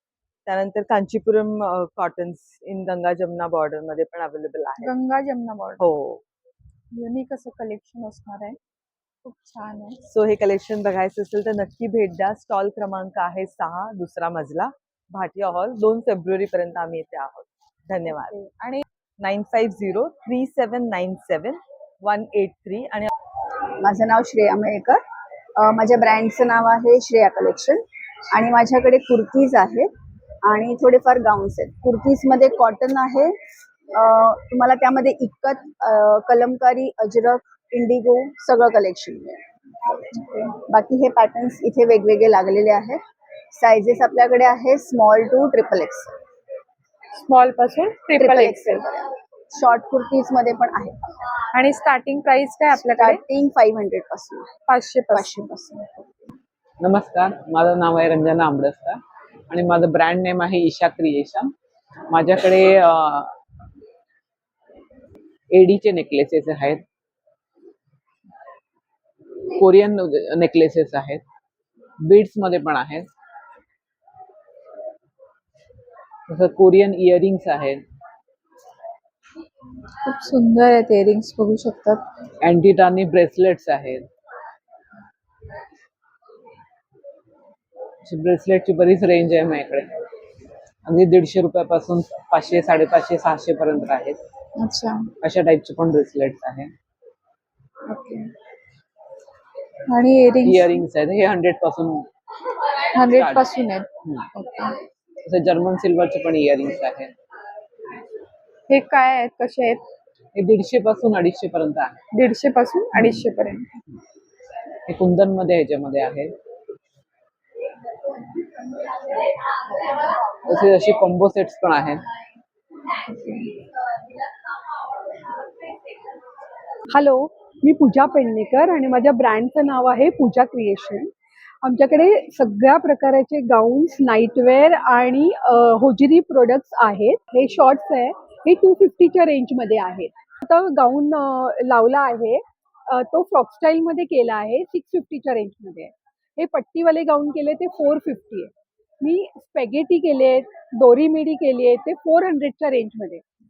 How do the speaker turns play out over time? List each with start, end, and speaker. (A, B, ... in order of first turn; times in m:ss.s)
0:00.4-0:04.9 A
0:04.8-0:05.8 B
0:05.8-0:06.2 A
0:06.9-0:08.6 B
0:09.2-0:10.0 B
0:10.0-0:18.4 A
0:18.1-0:18.8 B
0:19.2-0:23.1 A
0:23.8-0:25.0 C
0:25.6-0:29.9 C
0:30.4-0:33.3 C
0:33.9-0:39.4 C
0:40.6-0:43.0 C
0:43.5-0:46.1 C
0:47.2-0:48.8 B
0:48.2-0:51.1 C
0:51.5-0:53.2 B
0:52.9-0:54.5 C
0:54.7-0:55.9 B
0:55.1-0:55.6 C
0:56.8-1:01.5 D
1:02.1-1:03.3 D
1:05.5-1:06.8 D
1:09.5-1:11.2 D
1:12.1-1:13.1 D
1:16.3-1:17.8 D
1:20.0-1:22.0 B
1:22.4-1:24.0 D
1:28.0-1:29.9 D
1:30.8-1:34.2 D
1:34.6-1:35.1 B
1:35.2-1:36.7 D
1:37.9-1:38.2 B
1:39.9-1:40.8 B
1:40.4-1:42.1 D
1:42.9-1:44.8 B
1:43.1-1:43.5 D
1:45.2-1:47.1 D
1:48.7-1:49.8 B
1:50.3-1:52.0 D
1:52.1-1:53.7 B
1:54.9-1:56.3 D
2:00.4-2:02.0 D
2:03.1-2:03.5 B
2:06.9-2:11.1 E
2:11.6-2:33.2 E